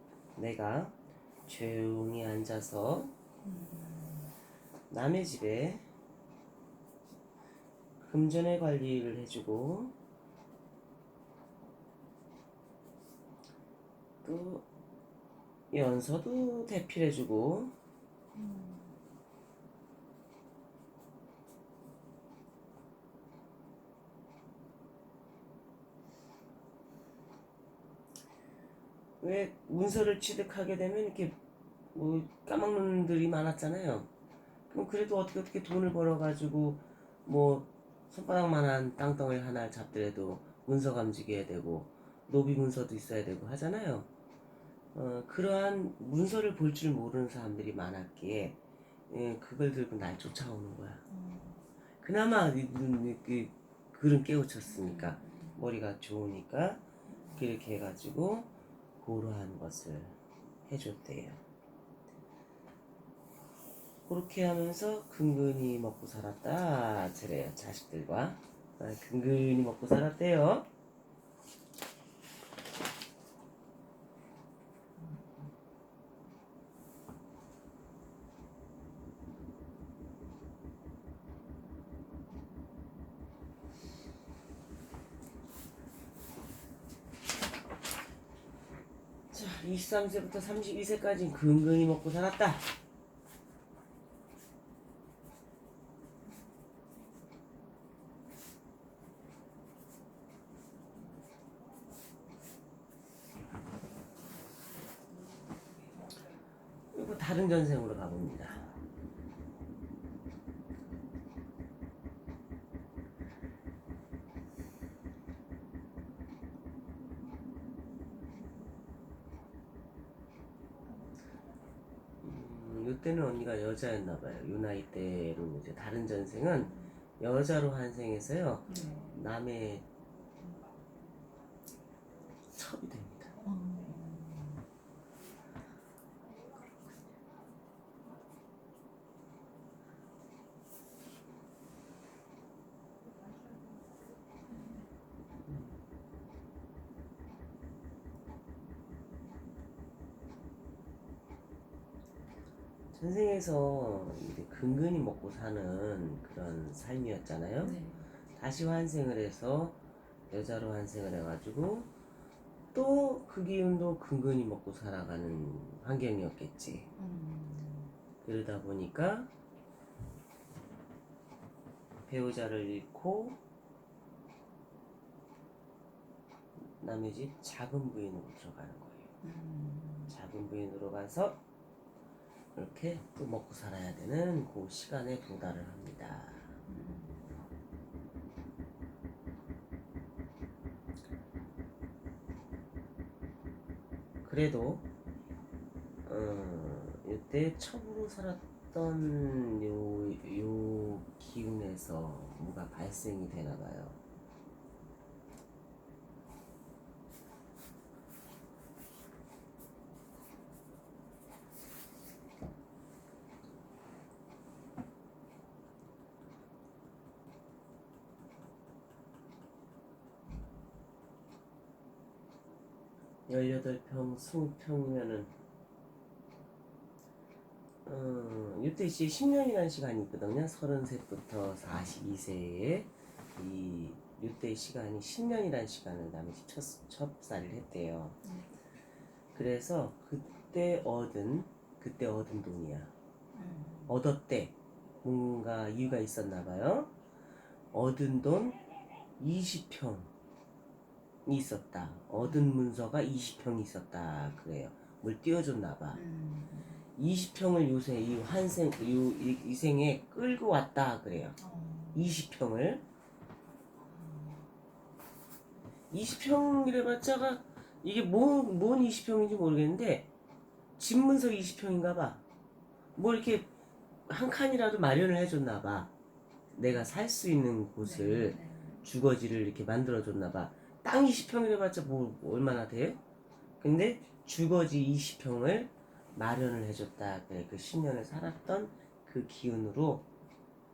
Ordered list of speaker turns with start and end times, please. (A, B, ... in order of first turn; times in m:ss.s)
0:00.4-0:00.9 A
0:01.5-0:03.1 A
0:03.4-0:04.3 B
0:04.9-0:05.8 A
0:08.0-0:09.9 A
0:14.2-0:14.6 A
0:15.7-0:17.7 A
0:18.3-0:19.0 B
0:29.2-0:31.4 A
0:31.9-0:34.1 A
0:34.7-0:44.1 A
0:44.9-0:48.6 A
0:49.1-0:51.0 A
0:51.1-0:51.6 B
0:52.0-0:56.8 A
0:54.7-0:55.6 B
0:57.1-0:57.4 B
0:57.4-1:00.2 A
1:00.7-1:01.4 A
1:04.1-1:10.7 A
1:29.3-1:32.7 A
1:46.9-1:48.7 A
2:02.2-2:09.8 A
2:08.7-2:09.1 B
2:12.5-2:13.3 A
2:13.4-2:14.6 B
2:25.5-2:25.7 A
2:32.9-2:37.8 A
2:37.6-2:38.0 B
2:38.4-2:39.8 A
2:40.3-2:41.9 A
2:42.7-2:46.9 A
2:47.0-2:47.9 B
2:48.2-2:49.3 A
2:52.1-2:53.4 A
2:56.6-2:59.1 A
2:59.2-3:00.1 B
3:00.1-3:01.4 A
3:02.5-3:06.5 A
3:06.7-3:07.2 B
3:14.2-3:14.8 A
3:16.0-3:24.0 A
3:43.3-3:45.3 A
3:47.8-3:58.2 A
3:58.2-3:58.5 B
3:59.3-4:02.9 A
4:03.3-4:03.9 B
4:03.9-4:06.9 A
4:07.7-4:08.6 A
4:09.2-4:10.1 A
4:11.2-4:16.0 A
4:12.2-4:12.5 B
4:15.9-4:16.8 B
4:17.0-4:21.4 A
4:21.4-4:22.1 B
4:21.9-4:22.8 A
4:23.9-4:24.4 B
4:25.9-4:30.1 A
4:30.8-4:32.2 A
4:33.0-4:33.5 A
4:34.1-4:35.9 A
4:36.5-4:43.0 A
4:37.8-4:38.8 B
4:43.6-4:50.1 A